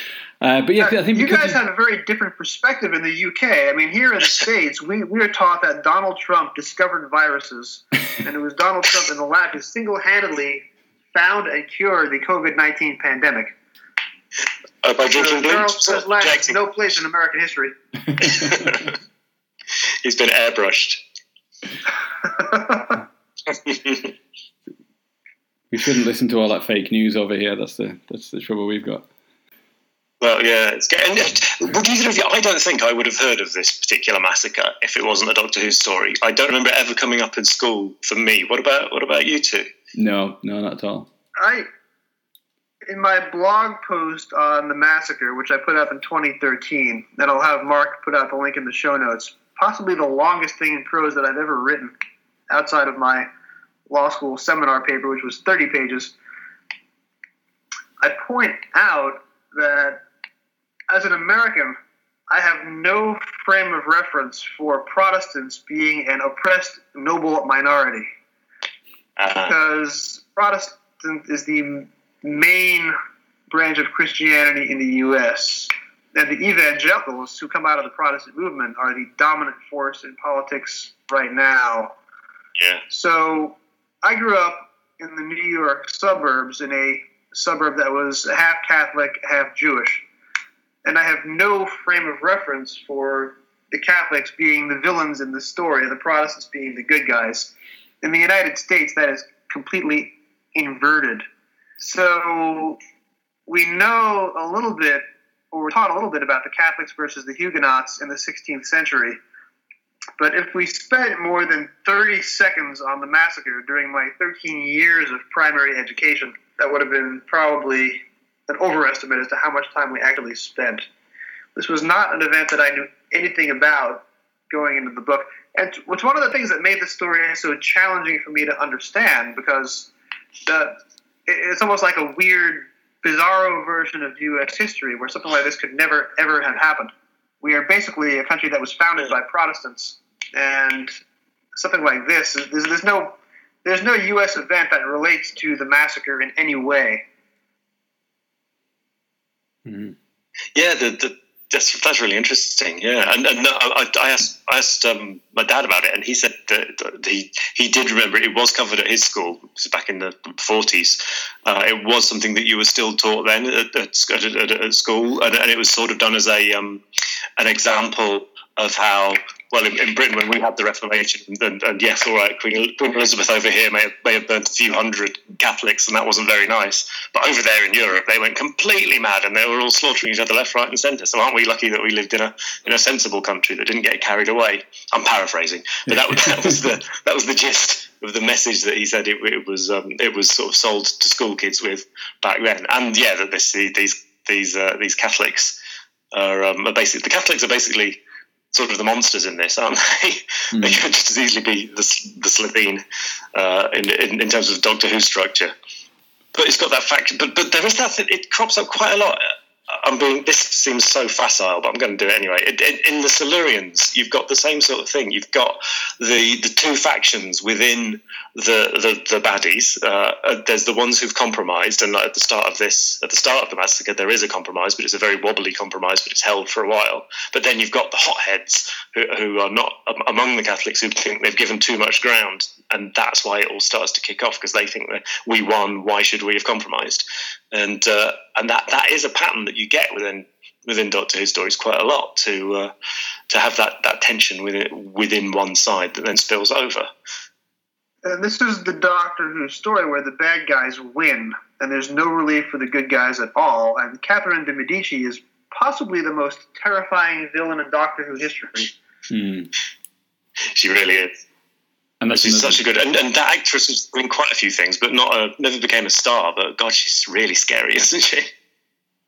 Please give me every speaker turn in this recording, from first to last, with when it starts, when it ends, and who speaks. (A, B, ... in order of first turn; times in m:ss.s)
0:00.4-0:01.6 A
0:00.8-0:13.5 B
0:14.8-0:16.5 C
0:15.1-0:17.8 B
0:18.3-0:18.9 C
0:20.0-0:21.0 C
0:23.5-0:24.1 C
0:25.7-0:29.1 A
0:30.2-0:39.7 C
0:39.9-0:41.1 A
0:41.4-0:41.7 B
0:42.8-0:51.9 B
0:52.5-0:53.3 B
0:53.9-0:56.1 B
0:58.0-1:00.0 B
1:00.9-1:01.8 B
1:02.3-1:08.1 B
1:09.2-1:09.5 C
1:09.4-1:13.0 B
1:13.5-1:21.9 B
1:22.6-1:22.8 C
1:22.9-1:30.0 B
1:30.8-1:41.2 B
1:41.8-1:42.8 B
1:43.5-1:49.2 B
1:50.2-2:00.8 B
2:01.6-2:09.9 B
2:10.4-2:16.9 B
2:17.4-2:20.9 B
2:21.6-2:27.0 B
2:29.6-2:30.0 A
2:30.5-2:46.8 C
2:47.4-3:15.6 C
3:05.9-3:06.6 A
3:16.1-3:18.0 C
3:18.5-3:25.5 C
3:20.5-3:20.8 A
3:26.3-4:02.7 C
4:03.3-4:06.9 C
4:08.0-4:18.7 B
4:19.1-4:19.5 A
4:20.5-4:21.1 C
4:22.0-4:22.6 A
4:22.1-4:28.3 C